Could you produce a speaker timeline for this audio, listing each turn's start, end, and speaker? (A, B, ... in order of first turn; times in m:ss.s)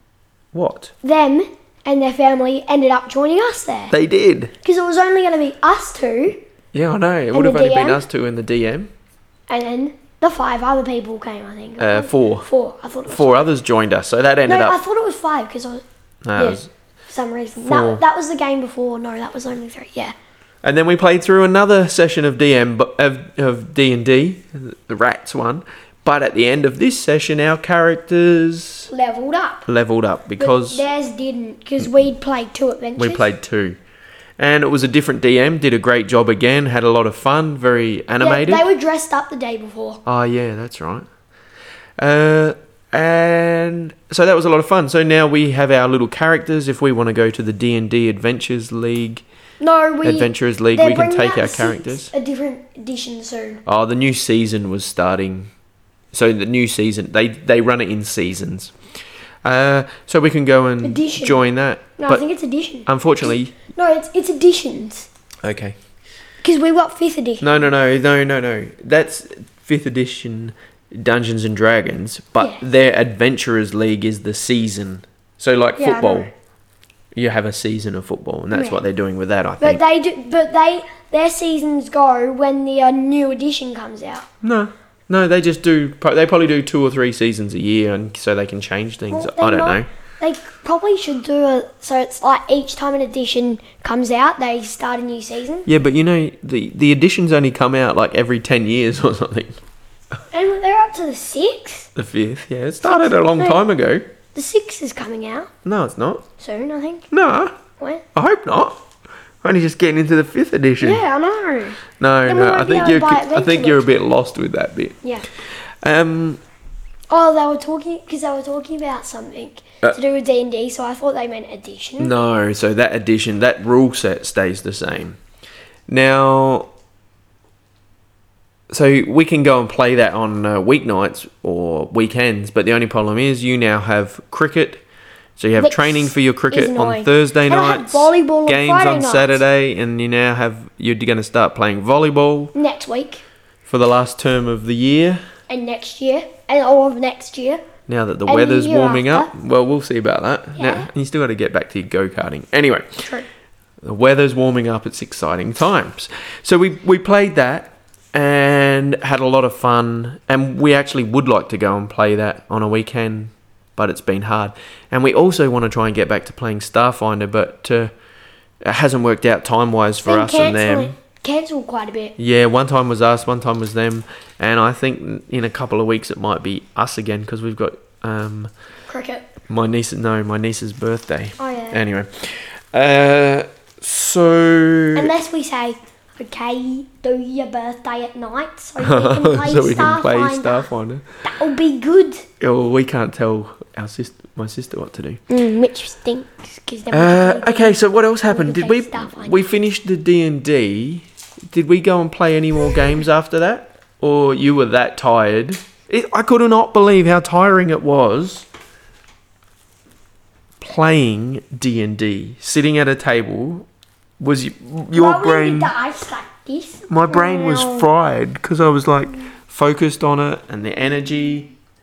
0:00.5-0:00.9 A
0:01.0-0:03.9 B
0:03.9-0:04.5 A
0:04.6-0:06.4 B
0:06.7-0:08.9 A
0:07.3-0:08.0 B
0:09.5-0:13.5 B
0:11.8-0:12.5 A
0:13.1-0:14.8 A
0:14.4-0:15.8 B
0:16.2-0:16.7 A
0:16.4-0:20.1 B
0:17.6-0:18.0 A
0:20.6-0:28.9 A
0:28.9-0:29.7 B
0:29.6-0:30.8 A
0:30.4-0:33.3 B
0:33.0-0:33.8 A
0:34.4-0:38.6 A
0:38.2-0:40.0 B
0:40.0-0:41.0 A
0:42.0-0:49.2 A
0:49.6-0:53.6 B
0:50.0-0:52.1 A
0:53.6-0:55.5 A
0:56.1-0:58.7 A
0:59.4-1:02.2 A
1:00.8-1:01.4 B
1:02.0-1:05.1 B
1:02.8-1:03.5 A
1:05.4-1:05.8 A
1:06.4-1:07.5 B
1:07.4-1:16.3 A
1:15.8-1:16.3 B
1:17.1-1:19.8 A
1:18.5-1:18.8 B
1:19.6-1:24.2 B
1:24.4-1:29.9 A
1:29.1-1:35.7 B
1:35.6-1:39.6 A
1:40.3-1:41.9 B
1:41.9-1:44.0 A
1:42.8-1:43.6 B
1:44.3-1:45.5 B
1:45.6-1:46.2 A
1:46.4-1:47.1 B
1:47.1-1:47.6 A
1:47.8-1:48.0 B
1:48.1-1:48.8 A
1:49.4-1:51.0 A
1:50.8-1:53.8 B
1:52.0-1:55.0 A
1:55.8-1:56.4 A
1:57.1-2:02.1 B
2:02.0-2:05.2 A
2:05.9-2:06.7 A
2:08.7-2:14.8 A
2:15.4-2:22.5 A
2:15.6-2:19.4 B
2:22.5-2:23.2 B
2:23.6-2:25.2 A
2:25.5-2:27.6 B
2:27.9-2:33.1 A
2:28.2-2:29.3 B
2:30.6-2:30.9 B
2:33.8-2:47.9 A
2:48.6-2:50.9 A
2:50.0-2:52.2 B
2:52.2-2:58.5 A
2:58.9-2:59.3 B
2:59.5-3:05.1 A
3:01.4-3:01.8 B
3:04.9-3:10.7 B
3:08.8-3:11.0 A
3:11.2-3:12.2 B
3:12.4-3:15.2 A
3:15.3-3:19.4 B
3:16.9-3:28.5 A
3:30.6-3:33.7 A
3:34.2-3:35.7 A
3:34.9-3:37.9 B
3:36.9-3:41.5 A